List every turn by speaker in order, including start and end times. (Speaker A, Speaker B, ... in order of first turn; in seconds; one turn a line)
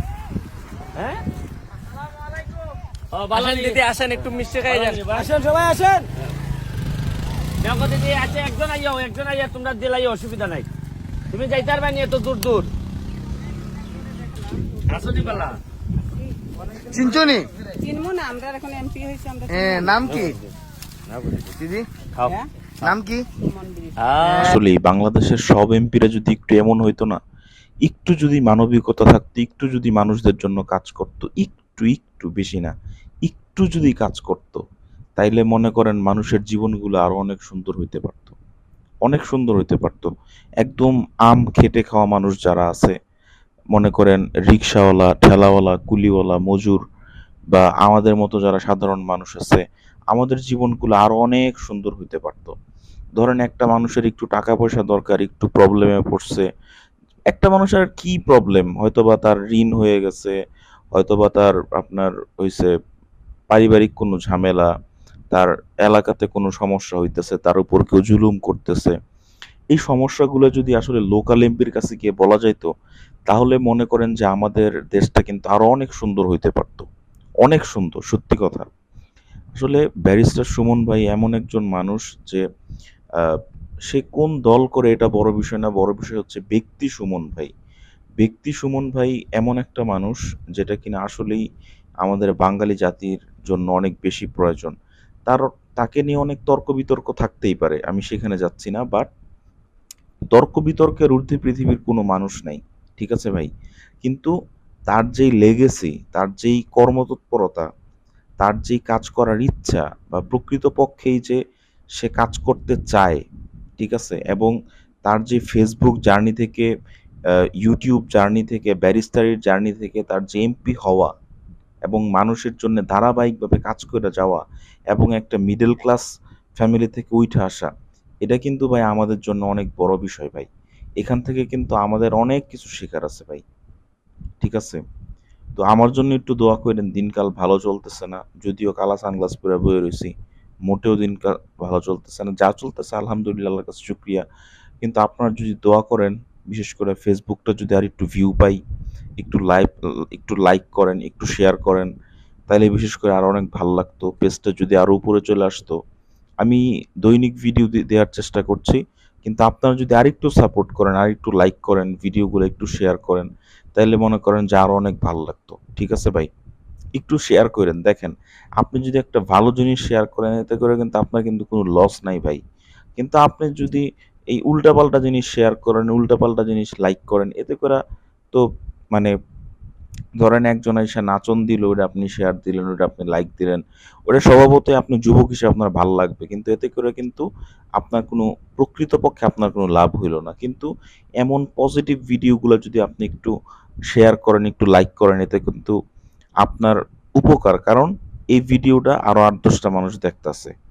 Speaker A: 0.9-1.2
Speaker A: 3.1-3.8
Speaker B: 3.3-5.2
Speaker A: 4.7-6.1
Speaker A: 7.6-10.7
Speaker A: 11.3-12.7
Speaker A: 14.9-15.5
Speaker C: 16.9-17.4
Speaker D: 17.8-19.9
Speaker C: 19.5-20.4
Speaker A: 20.1-20.5
Speaker A: 21.1-21.5
Speaker C: 21.6-21.9
Speaker A: 22.1-22.4
Speaker C: 22.9-23.2
Speaker D: 23.5-23.8
Speaker A: 24.0-24.6
Speaker E: 24.4-27.2
Speaker E: 27.8-32.7
Speaker E: 33.2-34.6
Speaker E: 35.2-38.4
Speaker E: 39.0-40.1
Speaker E: 40.6-43.0
Speaker E: 43.7-46.8
Speaker E: 47.5-52.5
Speaker E: 53.2-56.5
Speaker E: 57.3-60.4
Speaker E: 60.9-62.7
Speaker E: 63.5-64.7
Speaker E: 65.3-69.0
Speaker E: 69.7-72.7
Speaker E: 73.3-76.9
Speaker E: 77.4-78.7
Speaker E: 79.6-82.4
Speaker E: 83.2-87.5
Speaker E: 88.2-91.4
Speaker E: 92.0-94.7
Speaker E: 95.3-99.1
Speaker E: 100.3-103.5
Speaker E: 104.0-104.3
Speaker E: 104.9-107.7
Speaker E: 108.4-111.4
Speaker E: 112.0-113.2
Speaker E: 113.8-114.5
Speaker E: 115.1-116.7
Speaker E: 117.3-121.1
Speaker E: 121.9-126.0
Speaker E: 126.6-127.7
Speaker E: 128.2-130.5
Speaker E: 131.0-133.4
Speaker E: 134.4-134.8
Speaker E: 135.6-140.1
Speaker E: 140.7-144.2
Speaker E: 144.8-148.6
Speaker E: 149.2-151.9
Speaker E: 152.5-155.8
Speaker E: 156.4-166.3
Speaker E: 166.9-172.4
Speaker E: 173.0-177.8
Speaker E: 178.3-179.1
Speaker E: 180.2-187.2
Speaker E: 187.8-190.7
Speaker E: 191.2-193.3
Speaker E: 193.9-195.8
Speaker E: 196.4-200.5